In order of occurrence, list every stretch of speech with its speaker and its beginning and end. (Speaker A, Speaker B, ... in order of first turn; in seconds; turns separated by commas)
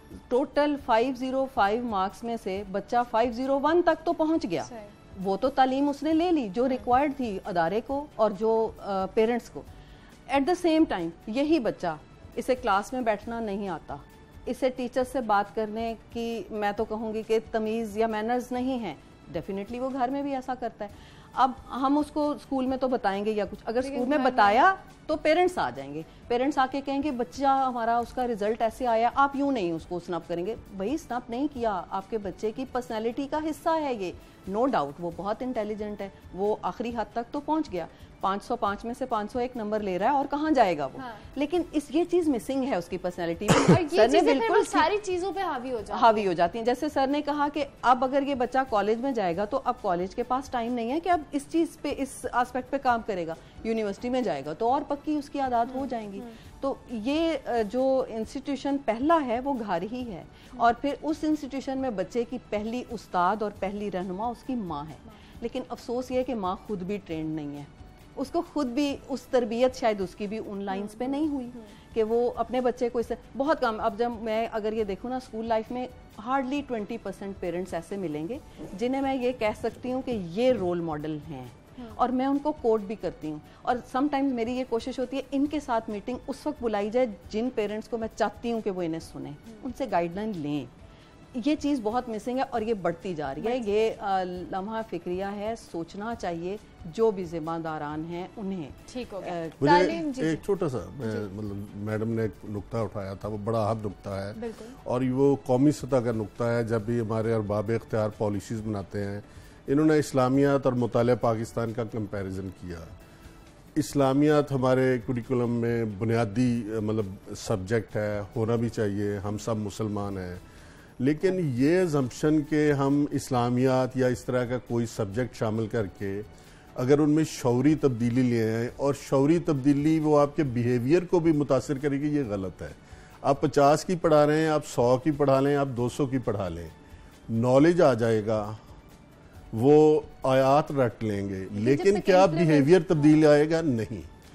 Speaker A: 0.3-9.7, Speaker B: 4.7-4.9, Speaker A: 10.3-44.9, Speaker B: 23.8-24.7, Speaker B: 41.0-41.2, Speaker B: 43.5-46.3, Speaker A: 45.9-90.7, Speaker B: 55.7-56.2, Speaker B: 70.7-71.7, Speaker A: 91.3-99.7, Speaker B: 93.4-94.0, Speaker B: 98.9-100.4, Speaker C: 99.6-112.9, Speaker B: 101.0-101.3, Speaker B: 104.4-104.8, Speaker C: 113.8-120.4, Speaker C: 121.0-126.3, Speaker C: 126.8-136.7, Speaker C: 137.3-138.6, Speaker C: 139.5-144.1, Speaker B: 141.5-143.2